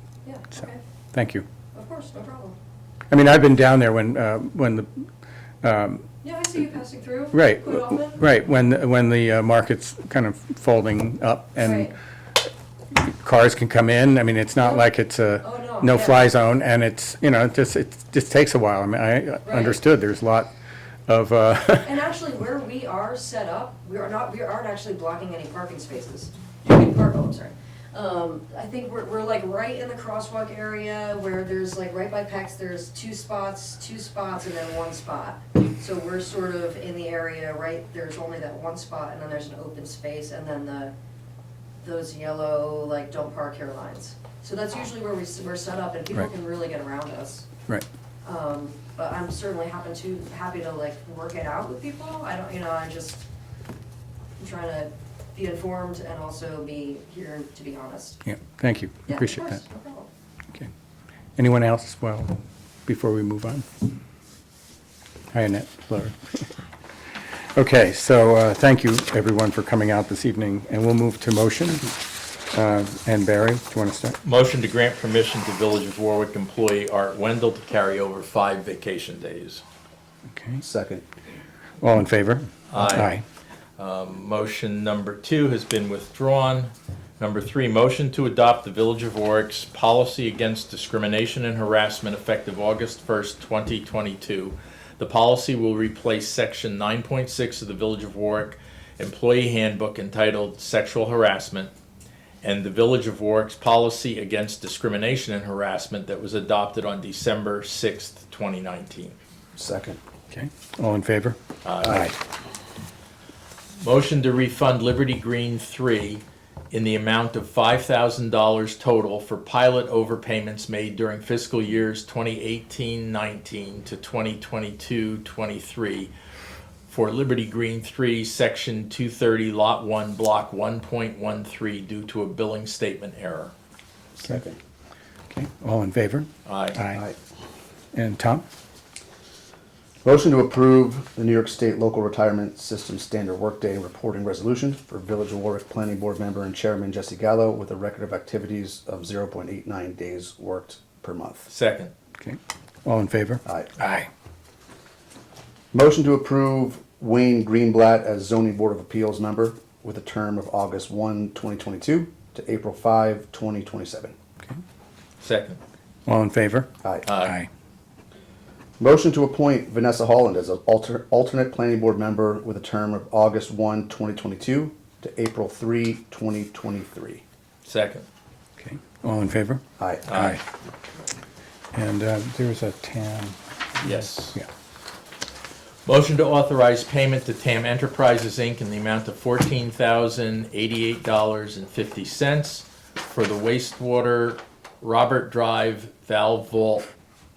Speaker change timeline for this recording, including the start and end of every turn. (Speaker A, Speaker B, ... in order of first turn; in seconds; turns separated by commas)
Speaker A: 0.2-0.8, Speaker B: 1.1-1.4, Speaker A: 1.7-2.6, Speaker B: 3.1-5.1, Speaker B: 5.6-6.0, Speaker A: 6.2-8.2, Speaker B: 7.3-11.9, Speaker A: 11.6-11.9, Speaker B: 13.0-20.5, Speaker A: 14.6-14.9, Speaker A: 15.4-16.3, Speaker A: 19.4-19.8, Speaker B: 21.1-21.9, Speaker A: 21.8-40.9, Speaker A: 41.8-47.5, Speaker A: 48.2-53.2, Speaker A: 54.4-58.2, Speaker B: 58.2-59.6, Speaker A: 59.1-60.1, Speaker B: 61.4-63.7, Speaker B: 65.3-66.5, Speaker B: 67.5-74.2, Speaker C: 74.2-79.6, Speaker B: 80.3-80.6, Speaker D: 80.6-81.0, Speaker B: 81.8-83.2, Speaker C: 82.7-83.1, Speaker C: 83.8-101.7, Speaker C: 102.4-109.2, Speaker D: 109.6-110.0, Speaker B: 110.3-112.2, Speaker C: 111.6-112.1, Speaker C: 113.8-126.1, Speaker C: 126.9-133.5, Speaker D: 134.2-134.6, Speaker B: 135.3-137.0, Speaker C: 136.4-136.8, Speaker B: 137.9-138.4, Speaker D: 140.1-151.5, Speaker C: 151.5-151.9, Speaker B: 152.2-154.1, Speaker D: 153.4-153.7, Speaker D: 155.7-164.1, Speaker C: 165.2-165.6, Speaker B: 166.1-167.5, Speaker C: 167.1-167.3, Speaker D: 168.8-177.2, Speaker C: 177.7-178.1, Speaker B: 178.6-180.4, Speaker D: 179.8-180.1, Speaker C: 180.1-180.4, Speaker B: 181.7-184.5, Speaker C: 183.8-184.4, Speaker C: 185.9-196.9